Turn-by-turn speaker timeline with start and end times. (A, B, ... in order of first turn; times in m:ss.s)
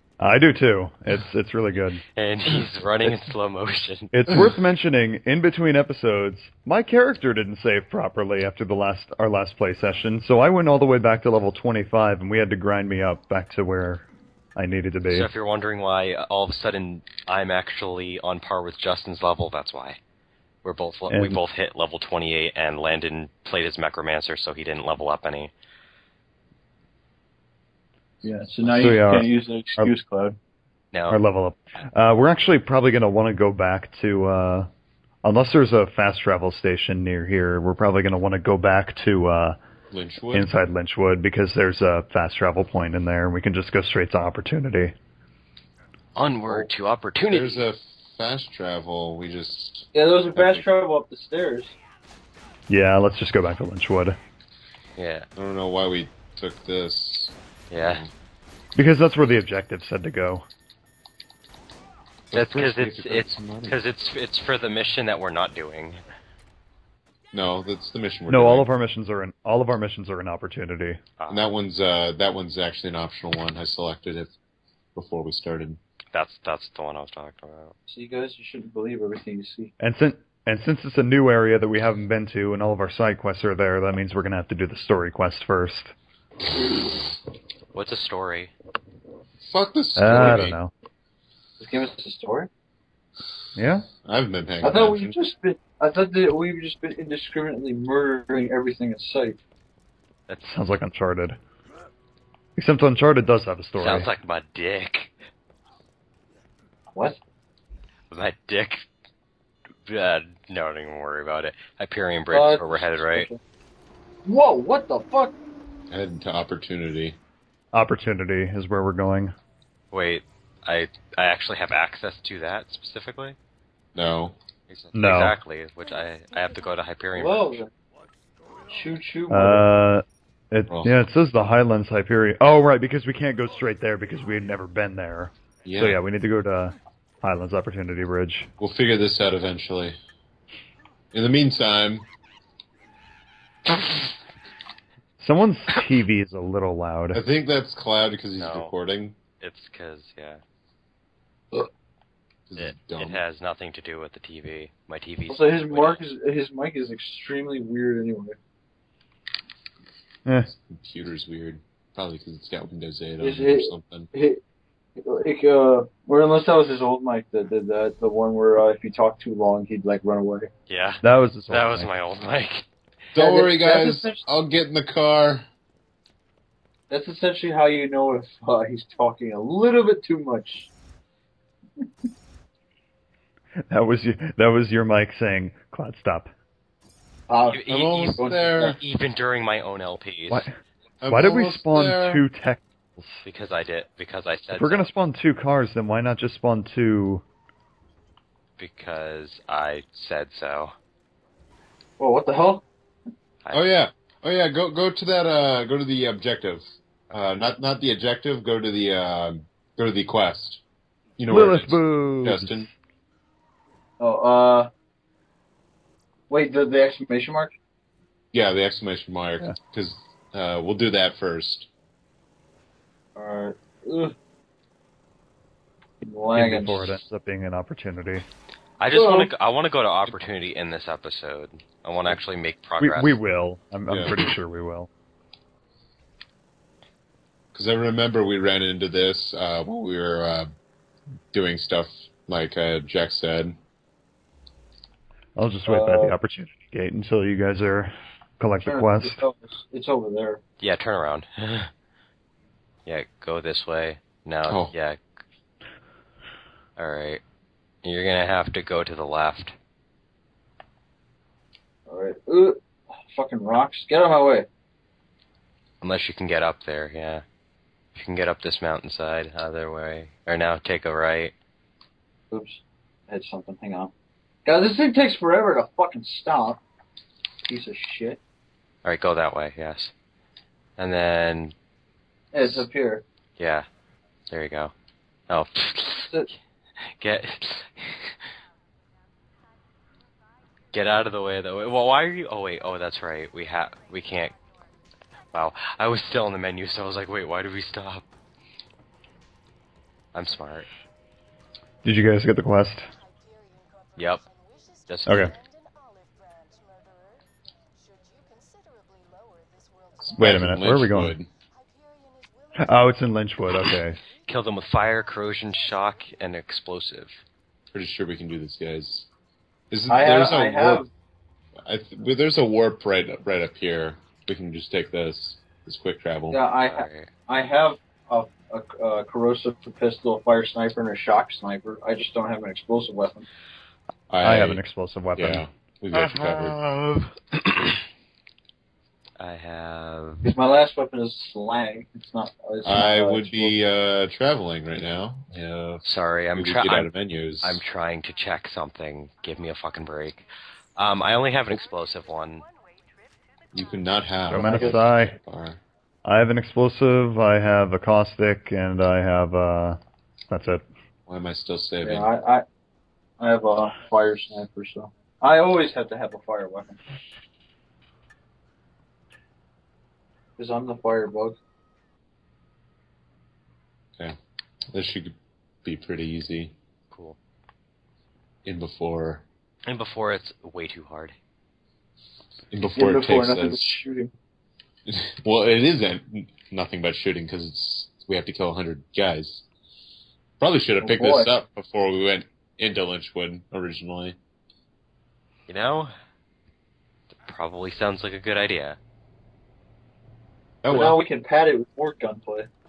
0:00.2-0:02.0 A
0:02.1-0:04.1 B
0:04.1-0:15.3 A
0:15.1-0:20.0 B
0:20.6-0:25.5 B
0:21.1-0:21.4 A
0:28.2-0:30.4 C
0:28.6-0:29.9 A
0:30.9-0:31.2 B
0:31.1-0:34.7 A
0:35.2-0:39.6 A
0:39.9-0:40.5 D
0:40.3-0:44.9 A
0:46.2-0:47.6 B
0:47.3-0:50.6 D
0:49.9-0:51.8 C
0:52.7-0:54.2 A
0:55.0-0:55.3 B
0:55.4-0:58.1 D
0:57.7-0:58.0 B
0:58.8-1:00.4 A
1:02.3-1:03.8 D
1:02.3-1:06.0 B
1:07.3-1:08.7 D
1:08.3-1:11.0 A
1:11.2-1:11.5 B
1:11.3-1:14.3 D
1:14.9-1:15.8 D
1:16.1-1:17.7 B
1:17.9-1:19.7 C
1:19.8-1:25.9 A
1:26.6-1:26.9 C
1:27.7-1:28.5 B
1:29.4-1:30.6 D
1:30.0-1:30.7 A
1:31.6-1:32.5 C
1:33.5-1:33.9 A
1:34.0-1:35.1 D
1:34.6-1:39.4 C
1:40.4-1:41.4 A
1:42.6-1:44.1 A
1:43.8-1:45.1 B
1:46.9-1:47.2 C
1:48.1-1:48.8 B
1:49.8-1:53.3 B
1:52.3-1:53.4 C
1:54.2-1:55.3 C
1:55.9-1:57.2 D
1:57.7-1:59.3 A
1:59.9-2:03.4 B
2:03.9-2:04.3 D
2:04.7-2:07.6 B
2:04.9-2:05.3 A
2:07.2-2:07.7 C
2:08.7-2:09.7 C
2:09.3-2:18.5 A
2:10.7-2:10.9 D
2:15.6-2:16.0 D
2:18.6-2:20.0 D
2:21.1-2:22.1 D
2:25.2-2:27.2 A
2:27.1-2:29.2 D
2:28.4-2:28.7 B
2:29.4-2:30.4 B
2:32.5-2:33.2 D
2:32.6-2:36.0 B
2:35.3-2:38.4 C
2:40.5-2:44.1 D
2:43.2-2:44.4 C
2:45.0-2:50.5 C
2:50.7-2:52.7 B
2:51.0-2:51.9 A
2:53.1-2:55.4 D
2:53.2-2:54.2 C
2:56.9-3:00.7 C
3:03.7-3:06.3 A
3:07.3-3:08.8 C
3:07.5-3:10.5 B
3:07.7-3:08.8 D
3:10.3-3:10.6 A
3:11.0-3:12.2 D
3:11.1-3:13.2 A
3:13.2-3:14.9 B
3:14.5-3:17.2 A
3:18.6-3:20.7 B
3:22.0-3:22.6 C
3:23.5-3:30.6 D
3:31.2-3:32.7 D
3:31.3-3:32.6 A
3:34.0-3:34.7 C
3:36.3-3:37.5 C
3:38.3-3:41.7 D
3:43.2-3:44.1 C
3:46.0-3:47.0 C
3:46.3-3:48.2 A
3:48.8-3:53.2 B
3:48.9-3:49.3 C
3:52.8-3:54.9 A
3:53.9-3:54.2 D
3:57.5-4:00.5 D
4:01.3-4:03.6 D
4:05.4-4:09.2 A
4:05.7-4:06.1 C
4:08.6-4:10.4 C
4:10.6-4:11.7 B
4:12.8-4:15.0 B
4:14.5-4:14.7 D
4:16.8-4:17.2 B
4:17.8-4:19.5 B
4:21.9-4:24.5 C
4:25.8-4:27.2 B
4:27.9-4:31.3 B
4:32.3-4:33.9 C
4:34.4-4:36.6 C
4:37.4-4:38.2 C
4:38.8-4:39.9 B
4:40.8-4:41.5 B
4:42.3-4:43.0 C
4:43.4-4:43.7 B
4:44.3-4:44.7 B
4:45.3-4:46.1 B
4:46.8-4:48.2 B
4:50.7-4:54.3 B
4:55.3-4:58.0 B
5:00.1-5:00.7 B
5:01.8-5:02.9 A
5:04.0-5:04.2 B
5:04.8-5:05.3 B
5:05.0-5:05.3 A
5:10.0-5:11.3 D
5:10.2-5:11.2 A
5:12.6-5:14.0 A
5:14.2-5:17.2 B
5:17.7-5:19.1 D
5:19.7-5:20.8 D
5:19.9-5:20.9 C
5:21.6-5:26.4 D
5:26.3-5:33.3 C
5:26.6-5:27.1 B
5:34.1-5:34.6 D
5:34.2-5:35.4 A
5:35.2-5:36.6 D
5:35.9-5:37.8 B
5:39.2-5:40.3 B
5:40.2-5:43.5 C
5:42.6-5:47.6 D
5:45.8-5:46.9 B
5:47.4-5:52.4 B
5:53.5-5:55.6 D
5:54.3-5:55.1 A
5:54.3-5:54.8 C
5:56.0-6:00.6 A
6:01.1-6:02.1 D
6:01.8-6:02.4 C
6:03.2-6:06.8 C
6:10.4-6:11.4 C
6:14.7-6:16.5 D
6:16.9-6:17.2 B
6:18.4-6:19.2 D
6:19.6-6:21.1 B
6:22.5-6:23.8 D
6:22.7-6:24.1 C
6:24.9-6:29.4 D
6:30.4-6:34.2 D
6:30.8-6:31.3 C
6:35.5-6:35.9 B
6:37.1-6:38.8 B
6:40.6-6:41.0 D
6:40.7-6:42.5 C